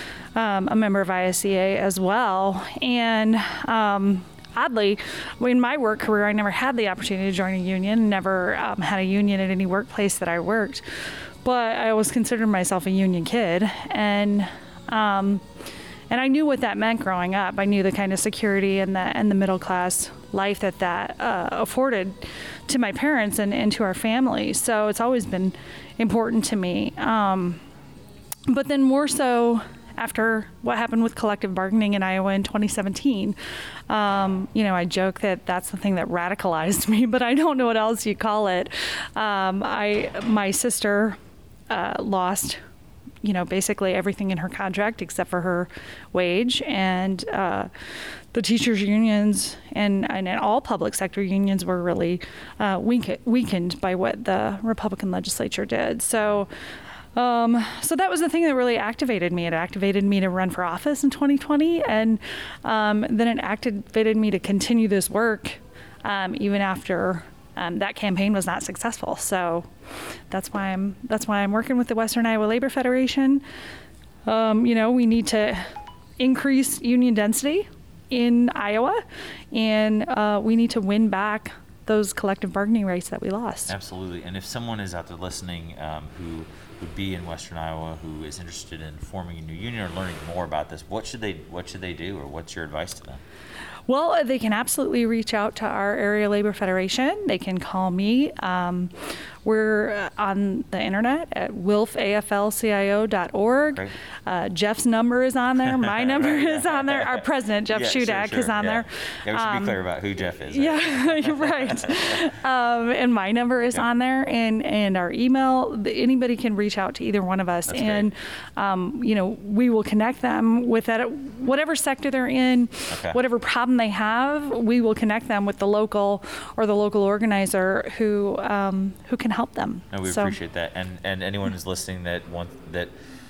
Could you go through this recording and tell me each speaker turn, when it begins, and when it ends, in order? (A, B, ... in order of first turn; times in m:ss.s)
0:00.3-0:10.8 A
0:11.4-0:15.4 A
0:16.1-0:27.6 A
0:28.5-0:33.4 A
0:33.9-0:41.2 A
0:41.7-0:42.6 A
0:43.2-0:47.7 A
0:48.3-0:56.5 A
0:57.2-1:09.7 A
1:10.3-1:13.4 A
1:14.2-1:15.7 A
1:16.2-1:19.0 A
1:19.5-1:23.8 A
1:23.7-1:33.2 B
1:33.9-1:38.9 A
1:39.4-1:49.8 A
1:46.0-1:47.2 B
1:47.7-1:52.0 B
1:50.5-2:10.4 A
1:57.7-1:58.1 B
2:02.9-2:03.2 B
2:09.9-2:12.9 B